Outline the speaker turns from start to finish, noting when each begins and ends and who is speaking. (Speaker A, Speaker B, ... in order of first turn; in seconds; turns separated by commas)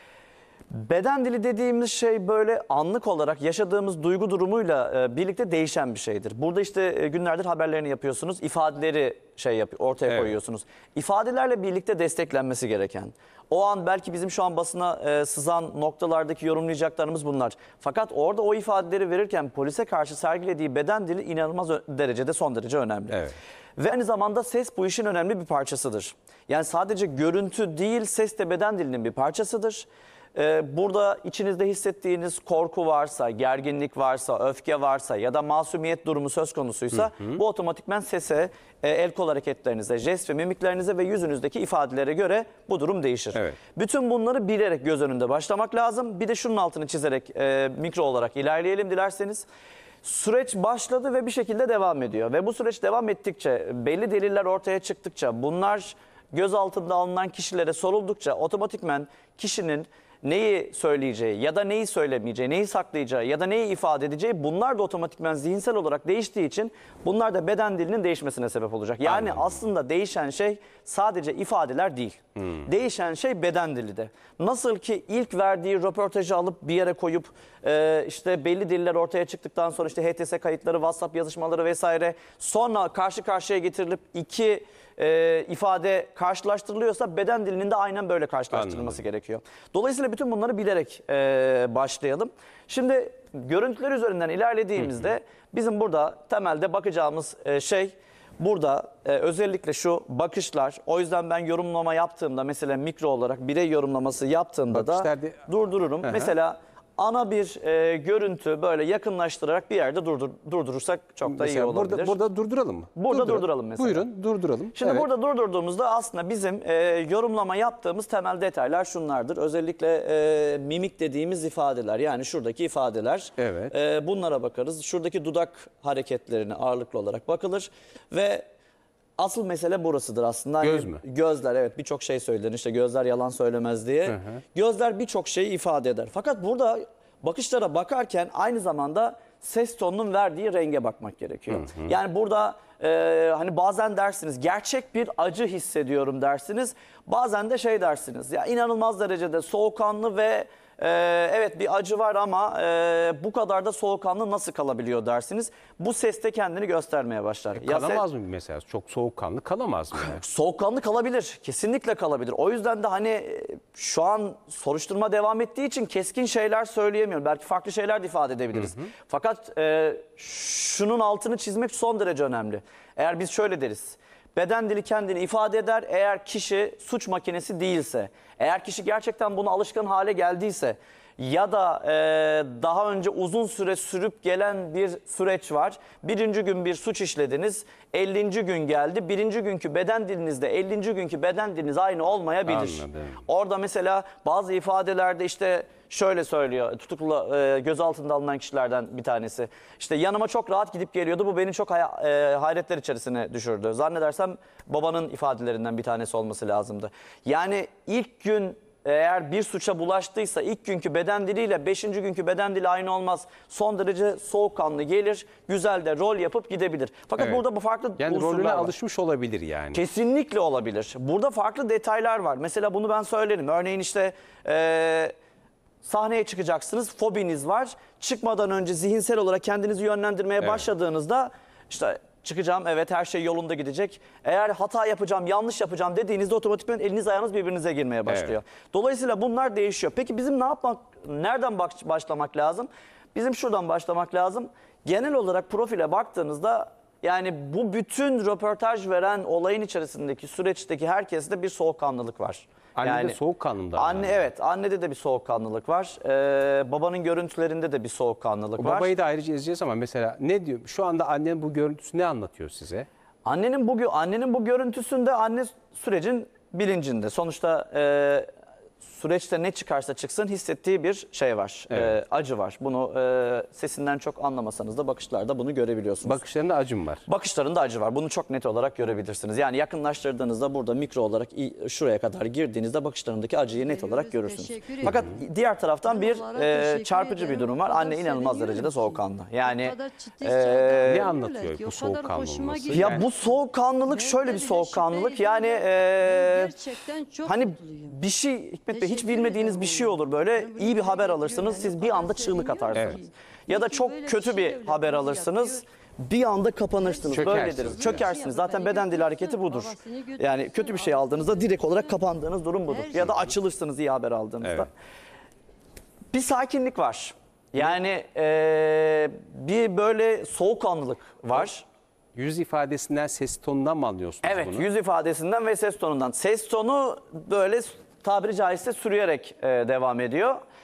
Speaker A: 0.7-23.2, Speaker B: 23.1-23.4, Speaker A: 23.8-49.5, Speaker A: 50.0-112.2, Speaker B: 69.1-69.5, Speaker B: 88.5-89.0, Speaker B: 104.7-105.5, Speaker B: 106.0-106.3, Speaker B: 111.2-115.0, Speaker A: 113.0-114.1, Speaker A: 114.7-128.5, Speaker B: 123.4-123.7, Speaker A: 129.2-158.0, Speaker B: 130.6-131.0, Speaker B: 134.1-134.4, Speaker B: 141.5-141.9, Speaker B: 157.5-160.2, Speaker A: 159.9-218.7, Speaker B: 168.6-168.9, Speaker B: 192.5-193.2, Speaker B: 218.0-219.8, Speaker A: 219.7-225.1, Speaker A: 225.8-253.2, Speaker B: 238.1-238.3, Speaker B: 252.8-254.2, Speaker A: 253.7-258.9, Speaker B: 258.6-262.9, Speaker A: 263.2-268.3, Speaker A: 268.8-276.2, Speaker B: 276.0-277.1, Speaker A: 277.1-291.1, Speaker C: 283.6-285.2, Speaker B: 284.8-285.1, Speaker C: 285.8-298.0, Speaker B: 290.9-293.0, Speaker A: 292.7-296.5, Speaker A: 297.2-314.7, Speaker C: 298.7-305.6, Speaker C: 306.8-312.0, Speaker B: 307.1-308.1, Speaker C: 312.6-313.1, Speaker B: 313.0-313.3, Speaker A: 316.1-321.6, Speaker B: 322.1-324.6, Speaker A: 324.2-330.4